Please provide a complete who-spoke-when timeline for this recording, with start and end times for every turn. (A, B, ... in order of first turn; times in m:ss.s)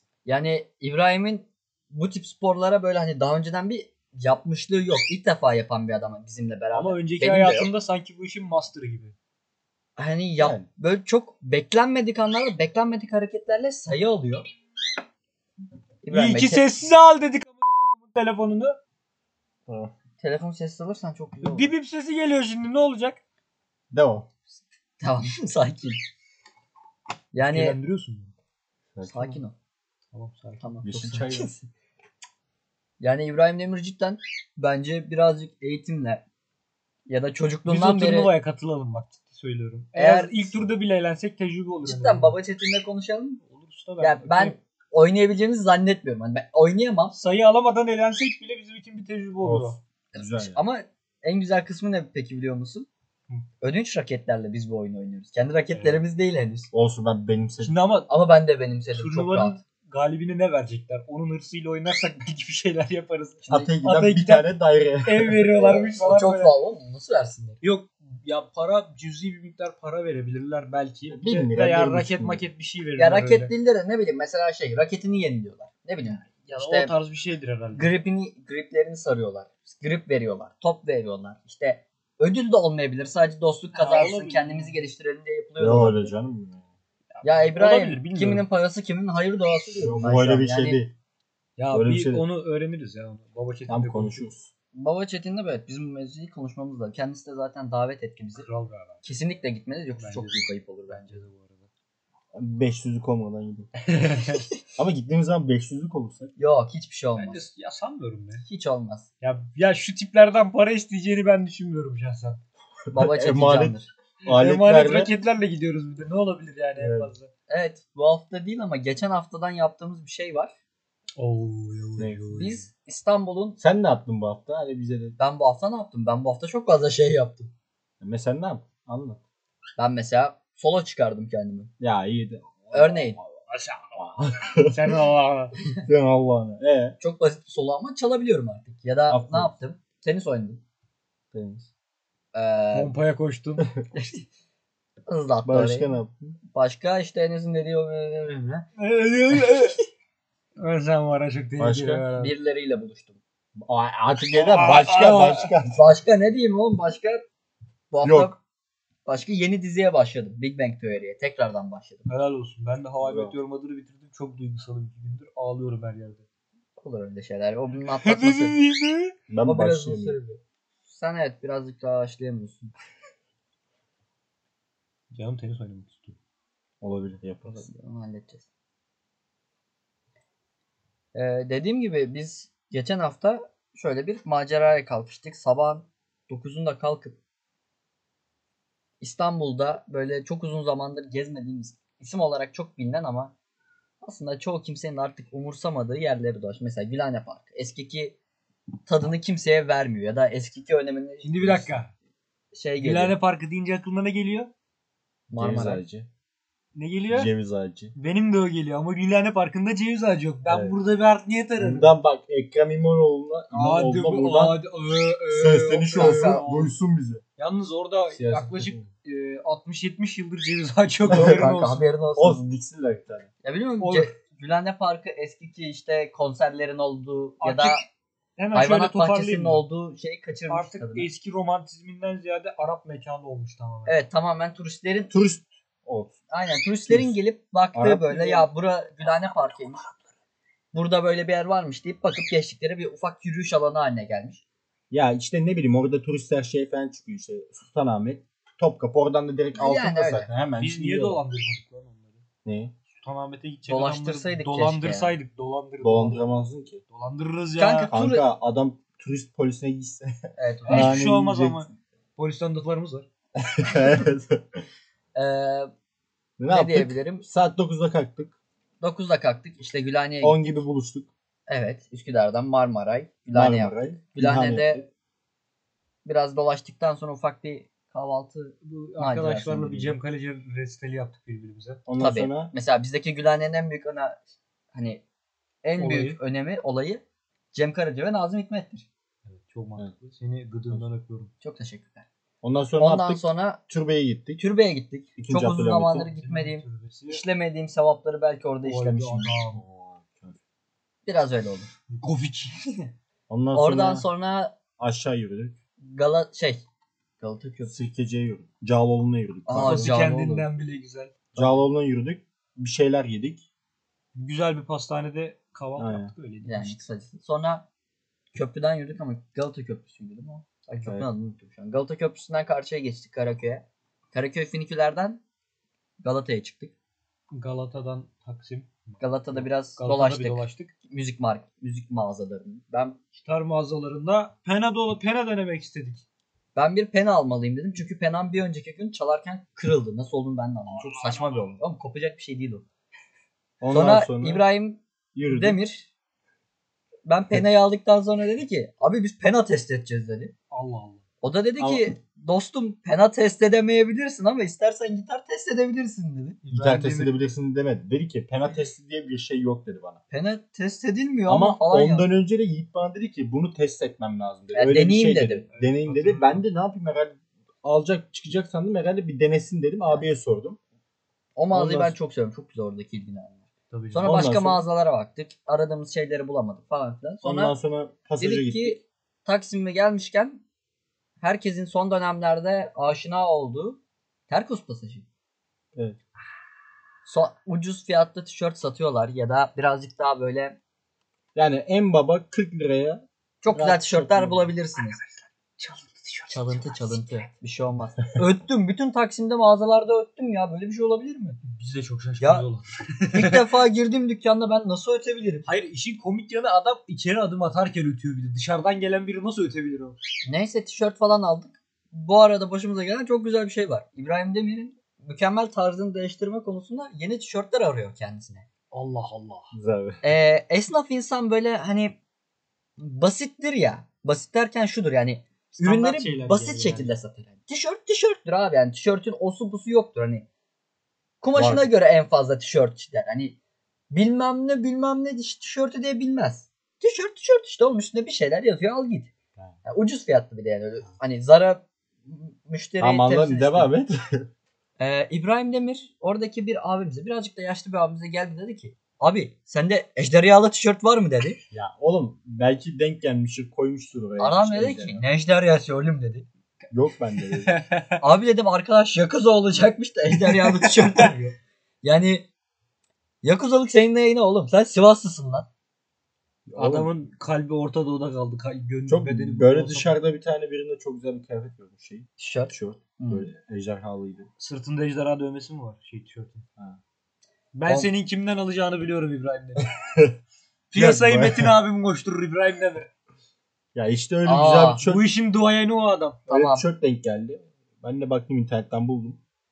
0:00.3-0:07.7 A
0:06.7-0:09.2 B
0:10.0-0:14.5 A
0:10.4-0:10.7 C
0:16.0-0:16.7 A
0:16.1-0:18.8 B
0:19.7-0:19.9 C
0:20.2-0:21.7 A
0:21.4-0:23.2 B
0:23.9-0:24.3 C
0:25.0-0:26.0 A
0:27.3-0:27.8 A
0:27.4-0:28.3 B
0:29.0-0:29.4 C
0:29.1-0:29.6 A
0:30.1-0:30.7 B
0:30.6-0:31.5 A
0:30.8-0:31.7 C
0:33.0-0:36.2 A
0:37.1-0:38.3 A
0:37.7-0:42.4 B
0:40.0-0:40.5 A
0:41.8-0:43.4 A
0:43.4-0:44.6 B
0:44.0-0:47.2 A
0:47.2-0:49.8 B
0:49.4-0:50.6 C
0:50.1-0:52.9 A
0:53.6-0:56.7 A
0:55.8-0:56.0 B
0:56.7-0:57.7 C
0:57.6-0:58.1 B
0:58.1-0:59.6 A
0:58.9-1:04.5 B
1:03.5-1:05.9 C
1:05.0-1:06.5 B
1:05.6-1:07.6 A
1:07.6-1:13.5 B
1:11.1-1:12.5 C
1:13.0-1:16.9 A
1:16.1-1:17.9 B
1:17.7-1:26.1 A
1:23.7-1:24.8 B
1:25.6-1:26.7 C
1:27.2-1:28.5 B
1:27.2-1:30.8 A
1:29.8-1:30.9 C
1:31.6-1:34.3 B
1:31.7-1:32.3 C
1:33.7-1:34.5 C
1:34.7-1:38.5 A
1:38.4-1:39.0 B
1:39.0-1:41.2 A
1:40.0-1:41.7 B
1:42.3-1:43.7 C
1:43.9-1:44.5 B
1:44.8-1:46.3 C
1:46.4-1:47.4 A
1:47.2-1:48.4 B
1:48.4-1:49.1 A
1:49.2-1:52.4 B
1:52.9-1:55.1 C
1:52.9-1:53.9 A
1:54.2-1:57.3 B
1:56.8-1:57.1 C
1:57.5-2:00.5 A
2:01.2-2:02.7 B
2:02.4-2:03.6 A
2:03.6-2:05.2 C
2:05.2-2:07.5 A
2:08.0-2:09.2 C
2:09.8-2:11.7 A
2:11.8-2:13.3 C
2:12.7-2:13.2 A
2:13.5-2:13.9 B
2:14.0-2:15.0 C
2:14.6-2:15.5 B
2:15.8-2:17.0 C
2:17.0-2:20.6 A
2:19.1-2:19.5 C
2:21.3-2:21.7 C
2:22.3-2:22.9 A
2:22.7-2:23.7 B
2:24.0-2:24.2 A
2:25.1-2:25.9 A
2:25.4-2:26.4 C
2:26.5-2:28.7 A
2:28.8-2:29.8 B
2:30.6-2:32.3 B
2:31.6-2:32.1 C
2:32.2-2:33.2 A
2:33.6-2:35.8 C
2:34.3-2:35.5 B
2:35.7-2:37.2 A
2:37.9-2:38.4 A
2:38.0-2:38.3 C
2:39.1-2:42.1 A
2:42.1-2:46.2 B
2:43.0-2:43.4 C
2:46.8-2:48.6 A
2:47.9-2:49.2 B
2:49.3-2:50.2 C
2:49.4-2:52.7 A
2:55.1-2:56.2 B
2:56.8-2:57.7 C
2:57.5-2:58.5 A
3:01.1-3:07.2 A
3:09.0-3:13.3 A
3:14.0-3:18.2 A
3:18.9-3:21.7 A
3:21.2-3:21.9 B
3:22.5-3:23.2 A
3:22.8-3:24.5 B
3:25.3-3:25.8 A
3:25.3-3:26.1 C
3:26.8-3:27.3 B
3:27.1-3:27.9 C
3:28.0-3:31.9 B
3:30.5-3:30.8 C
3:31.6-3:34.6 C
3:33.5-3:36.7 B
3:35.3-3:37.2 C
3:36.0-3:36.5 A
3:37.4-3:41.8 B
3:38.1-3:38.9 C
3:41.1-3:42.4 A
3:41.1-3:41.5 C
3:42.2-3:43.3 C
3:43.4-3:47.8 A
3:43.8-3:44.1 B
3:47.4-3:47.8 B
3:48.4-3:49.6 B
3:48.5-3:51.1 A
3:50.5-3:54.0 B
3:53.9-3:55.1 A
3:55.1-3:56.2 C
3:56.3-3:59.8 A
3:56.9-3:57.1 C
3:57.8-3:58.5 C
4:00.7-4:04.4 A
4:04.9-4:11.2 C
4:09.6-4:10.3 A
4:10.6-4:12.2 B
4:12.4-4:12.7 C
4:12.9-4:16.3 B
4:13.7-4:15.2 A
4:15.8-4:16.8 C
4:16.9-4:17.9 B
4:17.6-4:18.2 A
4:17.9-4:20.1 C
4:20.4-4:21.0 A
4:20.7-4:23.1 B
4:20.7-4:21.7 C
4:23.4-4:24.6 C
4:25.2-4:25.7 A
4:26.4-4:28.3 C
4:26.5-4:27.2 A
4:28.8-4:30.4 A
4:30.2-4:31.1 C
4:31.5-4:34.8 A
4:33.3-4:34.9 C
4:36.0-4:40.0 A
4:38.6-4:41.8 B
4:41.9-4:42.5 C
4:42.0-4:44.2 A
4:44.7-4:45.0 A
4:45.6-4:47.0 A
4:45.8-4:46.2 B
4:47.5-4:48.9 A
4:49.3-4:51.3 B
4:51.4-4:52.1 A
4:52.4-4:54.4 C
4:52.8-4:53.6 A
4:54.4-4:59.4 A
4:55.2-4:56.1 C
4:56.1-4:57.2 B
4:58.6-4:59.6 B
4:59.5-5:00.4 C
5:01.1-5:01.7 A
5:01.9-5:02.9 B
5:03.3-5:04.1 C
5:03.5-5:04.5 A
5:04.8-5:05.6 C
5:05.8-5:06.6 A
5:07.2-5:07.8 A
5:07.7-5:10.0 C
5:09.5-5:10.5 A
5:09.5-5:11.2 B
5:11.3-5:13.4 C
5:14.2-5:16.8 B
5:15.8-5:16.1 C
5:16.4-5:17.6 A
5:18.3-5:25.2 A
5:26.0-5:26.7 A
5:27.3-5:30.7 B
5:29.0-5:33.0 A
5:33.1-5:36.0 B
5:36.6-5:42.7 A
5:40.8-5:41.6 C
5:43.6-5:44.5 C
5:43.7-5:45.9 A
5:45.1-5:45.6 C
5:47.1-5:50.3 A
5:50.5-5:51.0 B
5:51.2-5:56.9 A
5:51.6-5:51.8 C
5:56.4-5:57.1 B
5:56.5-6:00.0 C
6:00.1-6:02.1 A
6:01.3-6:10.6 C
6:04.5-6:05.5 A
6:05.5-6:06.4 B
6:11.4-6:17.6 A
6:11.5-6:12.0 C
6:13.7-6:14.1 B
6:14.0-6:14.6 C
6:17.2-6:18.8 C
6:18.2-6:20.4 A
6:21.2-6:25.1 A
6:27.0-6:30.6 A
6:31.4-6:34.5 C
6:33.4-6:35.0 A
6:34.8-6:37.2 B
6:36.3-6:41.4 A
6:41.4-6:43.5 B
6:42.2-6:42.5 A
6:43.1-6:45.4 A
6:45.4-6:50.0 B
6:50.2-6:58.5 A
6:58.7-6:59.5 B
6:59.5-7:00.0 C
7:00.0-7:02.0 A
7:02.8-7:10.3 A
7:05.6-7:06.9 B
7:11.2-7:13.4 A
7:11.4-7:11.7 C
7:13.9-7:19.1 A
7:19.6-7:23.7 A
7:22.8-7:24.3 C
7:24.8-7:31.4 A
7:31.5-7:35.1 C
7:34.2-7:36.3 A
7:36.7-7:37.6 C
7:37.2-7:38.0 B
7:38.0-7:42.3 A
7:40.6-7:40.8 B
7:43.2-7:45.5 A
7:46.5-7:46.9 C
7:46.6-7:50.0 B
7:48.9-7:54.3 C
7:52.2-7:53.3 A
7:54.4-7:56.4 B
7:57.5-7:59.7 B
7:59.6-8:00.2 C
8:00.7-8:02.9 B
8:00.8-8:01.6 C
8:03.8-8:05.1 C
8:04.2-8:04.8 A
8:04.8-8:06.2 B
8:06.3-8:06.6 A
8:06.3-8:09.2 C